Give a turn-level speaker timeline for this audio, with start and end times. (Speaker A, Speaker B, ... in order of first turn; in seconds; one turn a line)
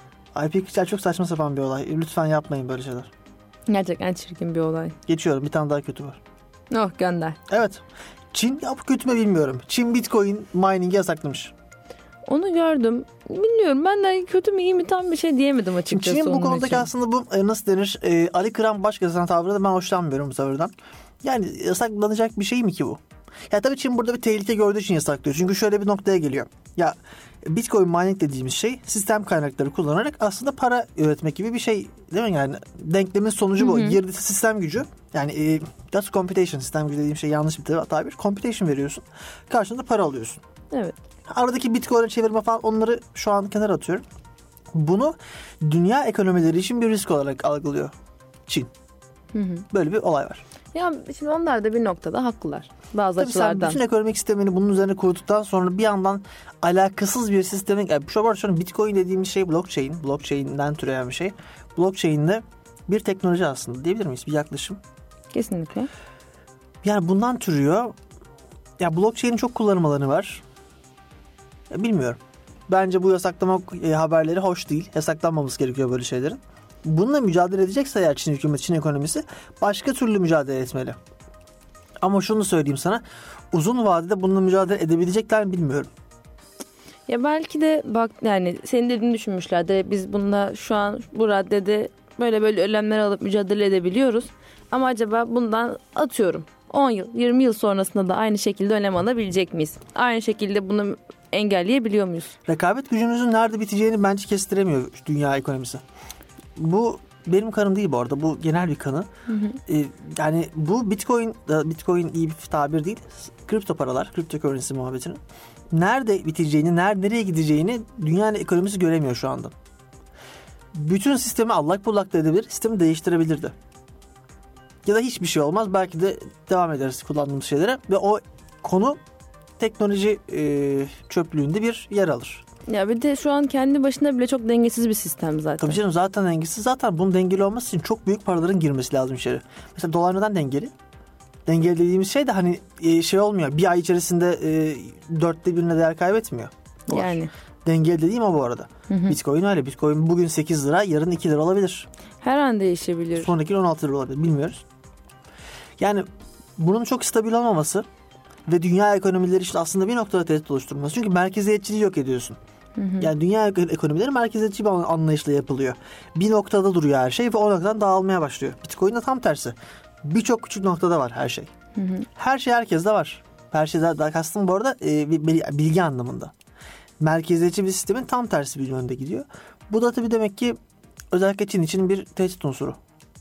Speaker A: 0.3-3.1
Speaker B: 3.7-5.0
Speaker A: 5.1-6.2
Speaker B: 6.7-7.4
Speaker A: 7.5-11.5
Speaker B: 12.3-16.9
Speaker A: 15.9-40.4
Speaker B: 33.6-34.0
Speaker B: 40.7-41.0
Speaker A: 41.3-44.0
Speaker A: 44.7-47.9
Speaker A: 48.5-48.7
Speaker B: 49.3-49.6
Speaker A: 49.7-50.4
Speaker B: 50.7-53.8
Speaker A: 53.2-64.8
Speaker B: 65.3-65.9
Speaker A: 66.8-67.9
Speaker A: 68.8-70.4
Speaker A: 71.7-81.0
Speaker A: 82.0-85.9
Speaker B: 87.1-102.3
Speaker A: 102.5-105.8
Speaker A: 106.5-109.1
Speaker B: 109.3-109.6
Speaker A: 109.7-115.2
Speaker A: 115.7-119.5
Speaker A: 120.7-123.5
Speaker A: 124.8-129.0
Speaker A: 129.6-132.4
Speaker B: 132.7-135.8
Speaker A: 135.6-140.7
Speaker A: 141.5-151.9
Speaker B: 146.9-147.3
Speaker B: 148.9-149.2
Speaker B: 152.2-153.3
Speaker A: 153.2-154.6
Speaker A: 155.8-157.8
Speaker A: 158.5-162.4
Speaker B: 162.8-163.1
Speaker A: 163.0-171.5
Speaker B: 171.8-172.1
Speaker A: 172.2-176.3
Speaker A: 177.0-180.6
Speaker A: 181.1-182.8